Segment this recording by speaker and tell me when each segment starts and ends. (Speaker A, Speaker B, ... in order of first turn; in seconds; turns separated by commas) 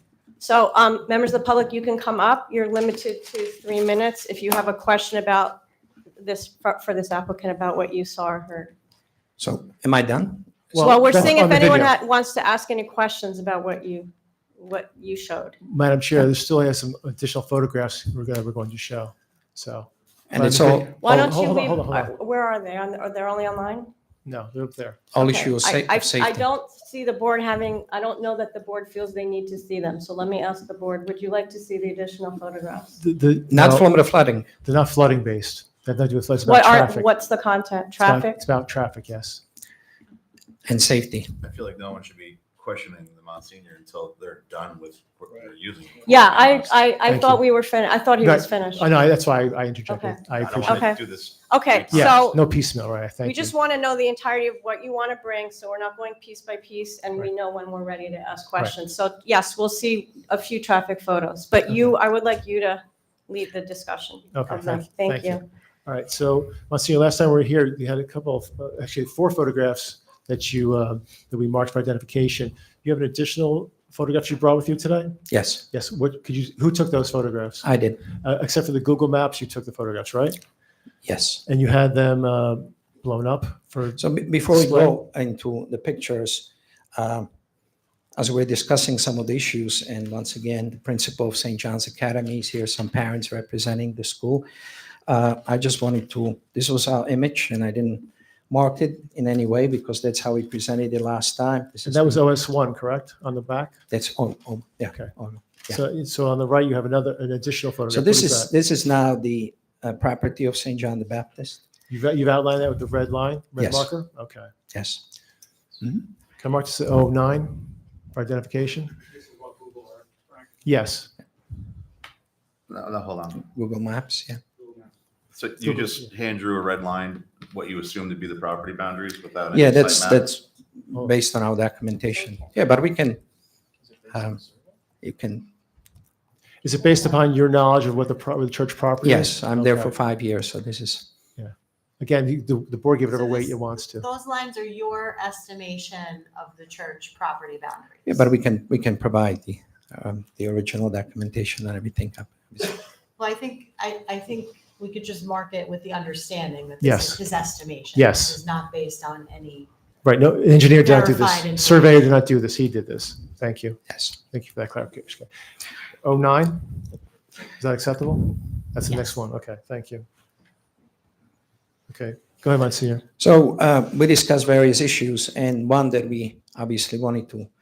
Speaker A: 0.4-5.6, Speaker A: 6.2-8.7, Speaker B: 9.4-11.5, Speaker C: 10.7-11.9, Speaker A: 10.8-15.6, Speaker C: 15.6-22.1, Speaker B: 20.3-21.2, Speaker A: 21.0-23.9, Speaker C: 24.2-25.0, Speaker B: 25.1-26.4, Speaker A: 25.2-32.9, Speaker C: 33.0-33.9, Speaker B: 33.5-34.5, Speaker C: 34.6-37.1, Speaker A: 36.5-38.4, Speaker C: 38.0-39.4, Speaker B: 40.7-41.3, Speaker D: 41.4-46.8, Speaker A: 46.0-48.9, Speaker C: 47.0-47.4, Speaker C: 48.2-51.0, Speaker A: 49.9-52.4, Speaker D: 50.4-52.4, Speaker C: 51.9-53.5, Speaker A: 53.2-65.4, Speaker C: 64.3-80.4, Speaker B: 75.3-75.6, Speaker B: 77.6-78.0, Speaker B: 81.0-81.4, Speaker C: 81.5-84.9, Speaker B: 84.0-87.3, Speaker B: 88.2-94.5, Speaker B: 95.1-102.2, Speaker C: 101.9-103.8, Speaker B: 103.9-105.8, Speaker C: 105.7-108.5, Speaker B: 107.9-111.6, Speaker C: 111.9-114.5, Speaker B: 113.6-113.9, Speaker B: 114.7-115.0, Speaker C: 116.4-119.0, Speaker C: 120.6-121.1, Speaker D: 122.7-123.4, Speaker B: 123.4-124.4, Speaker D: 125.3-130.2, Speaker B: 129.5-133.2, Speaker B: 134.1-134.4, Speaker B: 135.0-135.5, Speaker C: 136.6-139.9, Speaker B: 139.0-141.1, Speaker C: 141.4-144.1, Speaker E: 143.1-148.3, Speaker B: 148.1-152.8, Speaker E: 153.2-159.7, Speaker C: 156.8-157.2, Speaker C: 157.9-158.4, Speaker C: 160.0-165.3, Speaker E: 160.8-162.0, Speaker C: 166.0-167.0, Speaker C: 167.6-170.1, Speaker C: 171.9-173.0, Speaker B: 173.2-177.5